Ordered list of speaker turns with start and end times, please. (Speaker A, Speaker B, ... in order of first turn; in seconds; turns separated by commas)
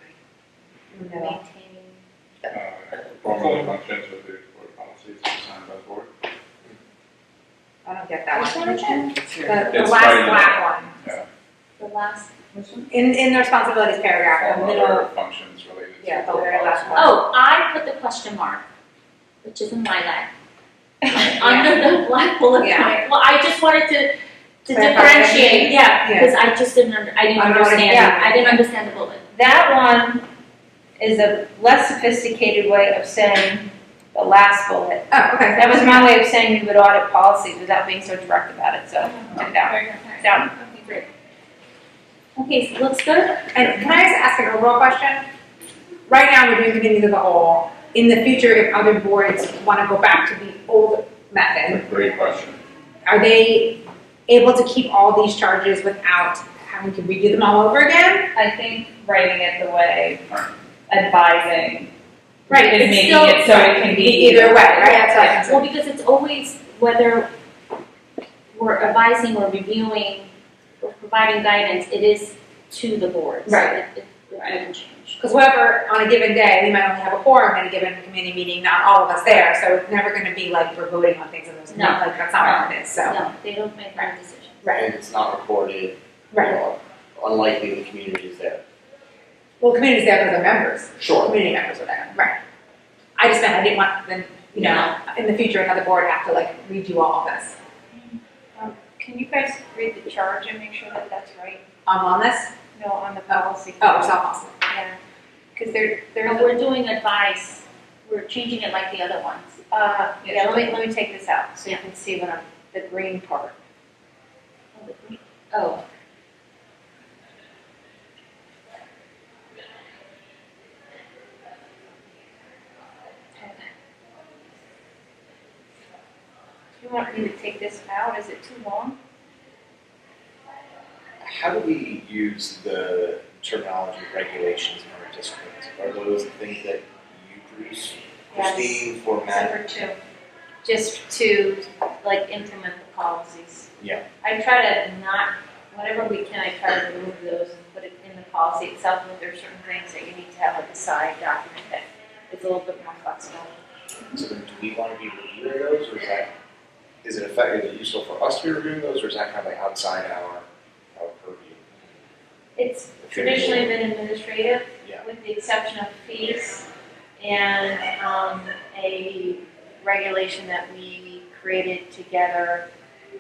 Speaker A: 0.9-1.4, Speaker B: 1.2-2.0, Speaker C: 2.5-6.1, Speaker A: 7.8-10.9, Speaker B: 8.3-9.1, Speaker C: 9.7-11.2, Speaker B: 11.8-12.8, Speaker A: 12.9-15.1, Speaker C: 14.2-17.1, Speaker A: 16.0-17.2, Speaker B: 16.9-18.6, Speaker B: 19.4-20.3, Speaker B: 21.0-29.2, Speaker A: 21.4-21.9, Speaker A: 22.6-22.9, Speaker A: 24.7-26.4, Speaker A: 27.4-28.6, Speaker D: 27.9-28.2, Speaker D: 29.3-30.2, Speaker D: 31.0-40.5, Speaker A: 35.1-36.1, Speaker E: 39.7-40.7, Speaker B: 40.7-41.0, Speaker B: 42.4-43.5, Speaker A: 43.5-45.3, Speaker A: 46.1-51.9, Speaker C: 51.7-52.6, Speaker A: 53.0-58.3, Speaker E: 58.3-60.2, Speaker E: 60.9-61.9, Speaker A: 62.5-65.6, Speaker E: 62.5-65.4, Speaker B: 64.0-67.3, Speaker B: 68.5-75.2, Speaker A: 73.5-73.8, Speaker A: 75.2-83.2, Speaker B: 81.7-84.6, Speaker F: 84.7-88.6, Speaker A: 86.3-86.6, Speaker A: 89.6-92.4, Speaker F: 91.0-91.4, Speaker A: 93.2-97.6, Speaker D: 97.9-101.6, Speaker A: 101.9-102.5, Speaker D: 102.8-105.0, Speaker A: 103.3-104.6, Speaker D: 105.6-106.5, Speaker B: 106.2-109.6, Speaker D: 109.7-113.6, Speaker B: 110.2-110.8, Speaker B: 114.8-115.8, Speaker D: 126.8-129.0, Speaker F: 131.2-139.6, Speaker D: 138.3-140.0, Speaker D: 140.6-143.7, Speaker F: 143.8-144.0, Speaker D: 144.2-153.5, Speaker F: 154.1-156.3, Speaker F: 157.0-161.6, Speaker D: 162.6-166.7, Speaker F: 163.0-163.7, Speaker D: 167.2-172.6